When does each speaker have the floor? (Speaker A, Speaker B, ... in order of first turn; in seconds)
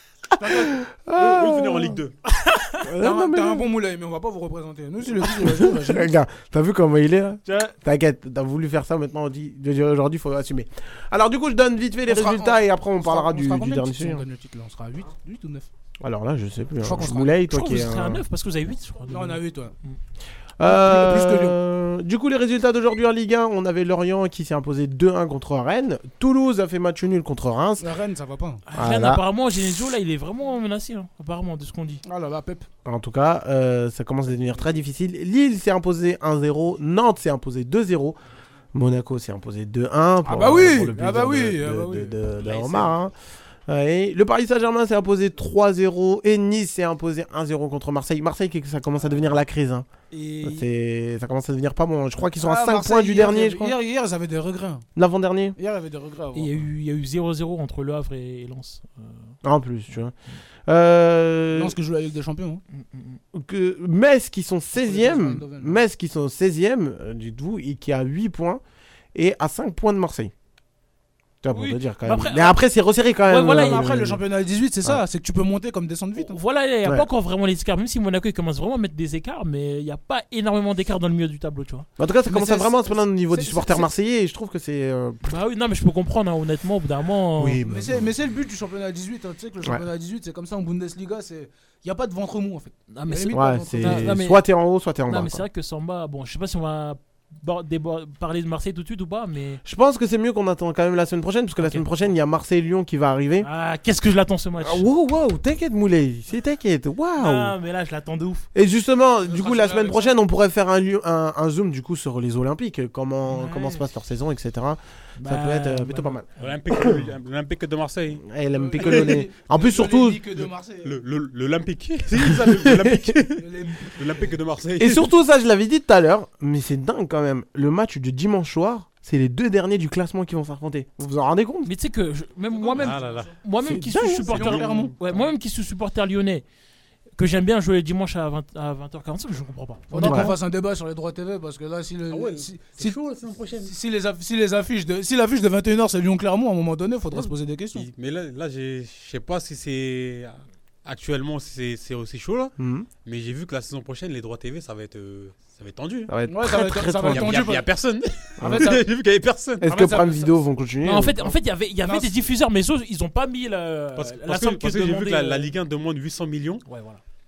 Speaker A: 0.4-0.7, 3.0-6.1, 12.1-15.7, 16.8-17.4, 19.1-19.7, 20.6-21.6, 27.8-28.6, 32.0-32.7, 40.2-42.9, 50.1-50.6, 52.4-54.9, 55.6-56.7, 61.5-62.6, 64.7-65.8, 73.4-76.4, 82.3-83.9, 87.6-94.2, 109.2-110.2, 118.5-121.0, 123.4-124.2, 132.6-133.3, 134.3-134.9, 139.9-143.0, 143.6-147.9, 156.3-157.7, 158.4-158.9, 159.6-160.4, 161.8-162.1
Speaker B: 0.4-2.0, 2.8-3.7, 5.3-14.2, 16.0-18.2, 20.6-27.9, 28.8-29.2, 32.9-38.2, 38.7-43.1, 43.7-49.9, 50.4-53.7, 55.0-55.6, 59.4-60.1, 60.7-61.8, 63.3-68.6, 69.1-70.3, 71.4-74.2, 82.0-85.2, 87.4-88.0, 93.3-95.5, 99.7-103.5, 104.6-107.5, 108.5-117.0, 118.3-120.2, 122.3-123.1, 124.8-131.7, 133.6-134.5, 140.0-140.3, 152.6-152.9, 156.1-157.4, 158.4-158.7, 159.6-161.3
Speaker C: 1.2-2.1, 116.4-118.3, 118.8-119.2, 120.8-125.1, 132.8-133.4, 134.3-134.9, 142.1-143.7, 147.1-152.5, 153.1-156.1, 157.1-159.7, 164.0-166.7
Speaker D: 7.5-7.7, 17.1-20.0, 28.7-32.0, 56.3-59.3, 62.7-63.2, 71.5-72.6, 73.3-73.9, 76.2-81.9, 85.3-87.6, 92.9-94.5, 95.1-99.6, 101.6-101.9, 103.4-104.9, 107.2-108.5, 113.3-113.8, 115.2-116.2, 131.7-136.4, 137.2-140.4, 160.8-165.5, 166.7-167.0